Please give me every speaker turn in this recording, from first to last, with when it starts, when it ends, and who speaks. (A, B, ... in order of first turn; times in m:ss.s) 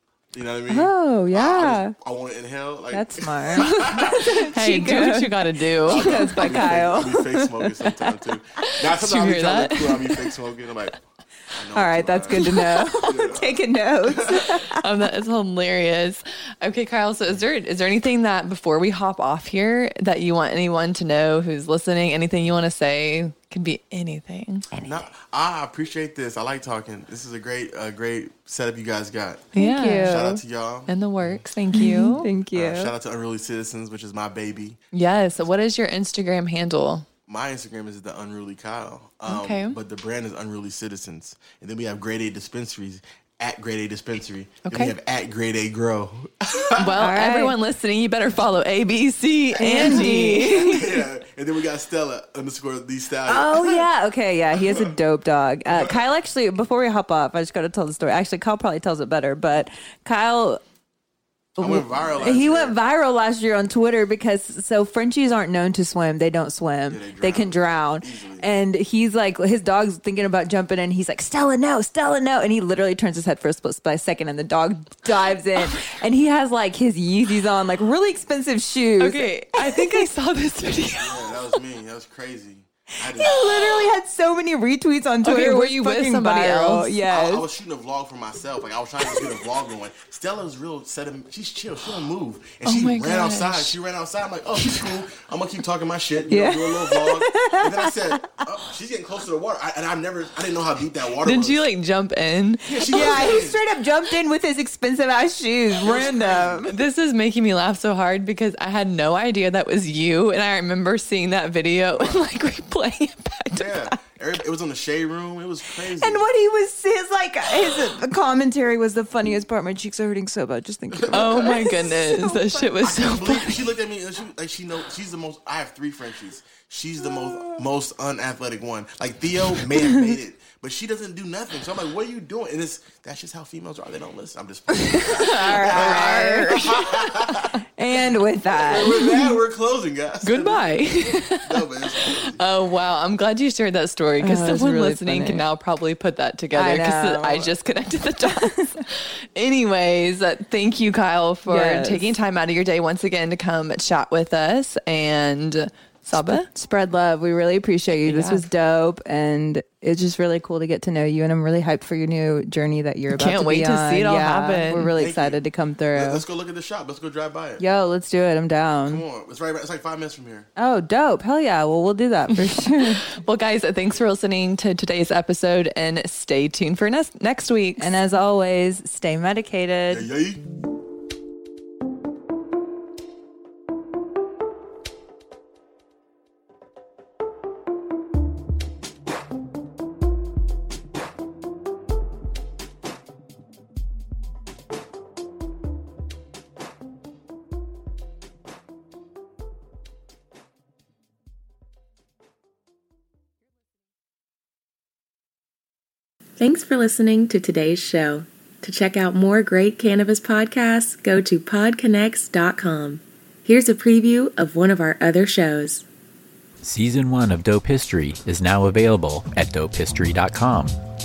0:00.3-0:04.4 A
0:00.7-0:01.9 B
0:02.9-0:08.0 B
0:04.2-0:06.6 C
0:05.8-0:11.0 A
0:08.6-0:10.4 C
0:11.5-0:12.5 A
0:11.7-0:14.8 B
0:12.3-0:13.1 C
0:13.0-0:14.7 A
0:14.7-0:24.7 C
0:24.8-0:31.4 A
0:29.5-0:30.2 C
0:29.5-0:30.4 B
0:30.9-0:32.3 C
0:31.7-0:32.9 B
0:32.5-0:34.8 A
0:34.9-0:37.1 C
0:37.3-0:47.0 A
0:39.2-0:39.8 C
0:44.6-0:44.9 C
0:46.7-0:50.8 C
0:47.0-0:47.6 B
0:49.6-0:51.0 B
0:49.8-0:53.9 A
0:53.2-1:00.6 B
0:54.5-0:54.9 A
1:01.6-1:20.1 B
1:01.6-1:02.8 A
1:06.9-1:08.5 A
1:19.0-1:21.4 C
1:21.0-1:23.9 A
1:23.0-1:27.4 B
1:25.2-1:27.0 C
1:27.1-1:41.6 A
1:32.6-1:33.7 C
1:36.3-1:38.4 B
1:41.2-1:43.3 C
1:42.6-1:43.6 A
1:42.9-1:46.7 B
1:45.8-1:46.7 A
1:46.7-1:54.0 C
1:51.9-1:52.2 A
1:53.5-1:56.2 A
1:55.7-2:02.7 B
2:00.9-2:01.9 A
2:01.1-2:03.7 C
2:02.8-2:17.6 A
2:09.9-2:10.2 B
2:14.7-2:17.0 B
2:15.5-2:16.8 C
2:17.8-2:19.0 B
2:18.5-2:20.7 A
2:20.2-2:36.5 C
2:21.4-2:22.4 A
2:24.2-2:25.4 B
2:26.5-2:27.5 B
2:28.2-2:28.8 B
2:31.5-2:32.1 B
2:36.1-2:46.2 B
2:38.0-2:38.4 C
2:43.1-2:44.9 C
2:45.0-2:45.4 A
2:45.9-2:47.6 A
2:47.6-2:49.0 B
2:48.8-2:50.5 A
2:50.6-2:53.0 B
2:52.3-2:57.9 C
2:57.8-3:00.1 B
2:59.9-3:00.4 A
3:26.4-3:35.8 D
3:36.6-3:40.8 E